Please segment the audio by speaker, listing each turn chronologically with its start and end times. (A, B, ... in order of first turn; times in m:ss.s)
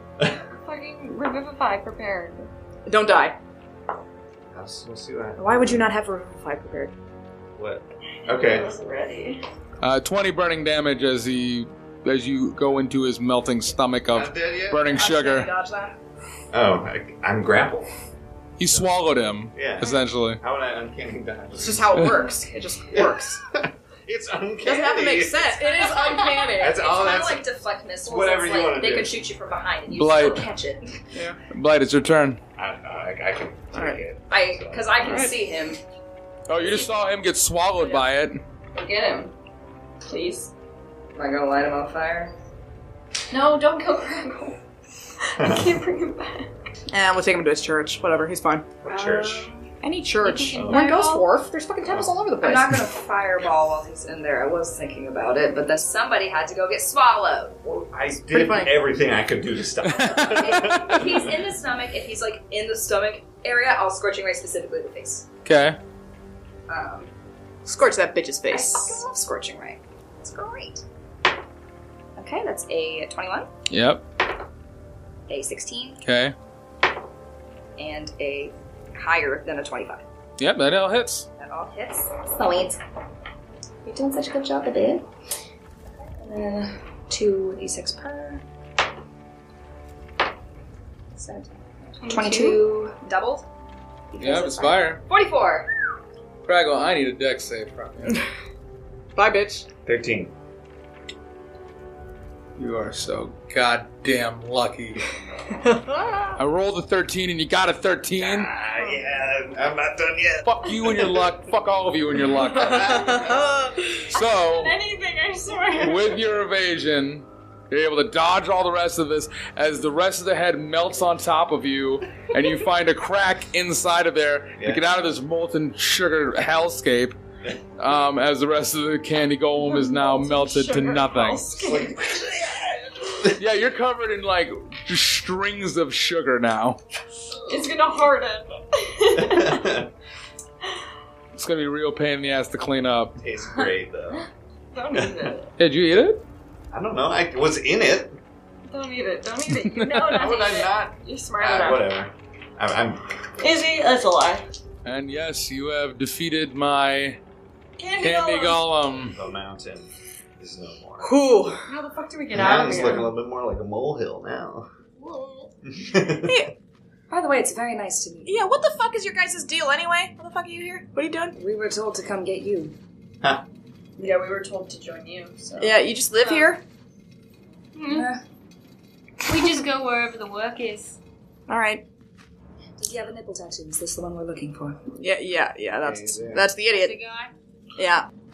0:00.6-0:02.5 A
0:02.9-0:03.4 B
0:04.5-0:05.9 C
0:05.4-0:06.9 B
0:07.6-0:08.7 C
0:08.2-0:09.4 A
0:09.8-0:15.5 D
0:14.1-0:15.0 C
0:14.9-0:16.0 B
0:16.5-0:17.9 C
0:18.6-0:20.4 D
0:19.5-0:22.1 C
0:21.6-0:23.4 B
0:22.9-0:26.0 C
0:24.6-0:26.8 B
0:26.6-0:27.5 C
0:26.6-0:31.0 E
0:28.0-0:29.2 C
0:29.9-0:30.5 D
0:31.1-0:31.4 B
0:31.5-0:32.4 D
0:32.6-0:34.9 C
0:33.7-0:34.0 B
0:34.3-0:35.8 E
0:35.0-0:35.4 B
0:36.5-0:38.4 D
0:37.8-0:38.0 B
0:38.7-0:39.3 A
0:40.1-0:40.5 A
0:41.2-0:42.3 E
0:43.3-0:44.6 A
0:45.3-0:46.5 A
0:45.4-0:45.8 C
0:46.9-0:48.7 B
0:48.8-0:49.5 C
0:48.9-0:49.6 E
0:49.8-0:52.9 B
0:50.1-0:51.3 F
0:50.5-0:50.9 C
0:51.9-0:52.2 C
0:52.4-0:57.6 E
0:57.6-1:01.3 C
0:58.3-0:58.8 B
0:59.9-1:01.2 D
1:00.3-1:05.3 E
1:05.4-1:05.8 D
1:06.7-1:07.1 E
1:07.6-1:09.0 B
1:08.5-1:10.8 E
1:12.2-1:13.5 E
1:13.7-1:14.0 D
1:15.3-1:16.0 E
1:16.0-1:16.4 D
1:17.8-1:20.0 E
1:20.4-1:21.3 D
1:21.4-1:22.8 E
1:23.8-1:25.1 E
1:26.2-1:28.4 E
1:31.2-1:33.5 E
1:32.0-1:32.6 F
1:34.1-1:35.7 E
1:34.2-1:35.0 D
1:36.4-1:38.2 D
1:39.2-1:39.7 B
1:39.8-1:40.3 C
1:42.6-1:45.0 D
1:45.6-1:46.4 B
1:46.4-1:48.5 D
1:48.2-1:51.3 C
1:50.4-1:53.1 D
1:52.1-1:53.1 C
1:52.5-1:54.0 B
1:54.1-1:54.8 D
1:54.1-1:56.2 A
1:55.8-2:07.2 D
2:04.6-2:04.9 C
2:07.8-2:11.7 D
2:09.6-2:12.8 A
2:11.6-2:12.6 C
2:13.4-2:16.8 D
2:17.4-2:19.7 A
2:19.1-2:19.9 C
2:21.4-2:23.2 D
2:23.2-2:24.2 C
2:24.1-2:25.5 A
2:24.9-2:25.3 C
2:25.6-2:26.2 D
2:26.7-2:28.2 C
2:28.7-2:31.9 A
2:29.6-2:30.2 D
2:30.1-2:33.0 C
2:33.4-2:34.5 A
2:34.8-2:37.2 D
2:37.8-2:38.7 A
2:38.0-2:39.2 D
2:39.1-2:41.1 C
2:41.0-2:41.6 B
2:41.7-2:43.1 A
2:42.3-2:44.7 C
2:45.0-2:45.5 A
2:45.7-2:46.5 C
2:46.2-2:46.5 B
2:47.1-2:48.3 E
2:48.2-2:51.4 B
2:51.3-2:52.8 E
2:54.0-2:56.5 A
2:55.6-2:56.6 B
2:57.8-2:58.1 F
2:57.9-2:58.2 E
2:59.2-3:01.0 F
3:01.5-3:01.8 B
3:02.8-3:04.8 E
3:05.0-3:07.0 B
3:05.8-3:06.5 C
3:06.7-3:07.3 F
3:07.8-3:08.1 B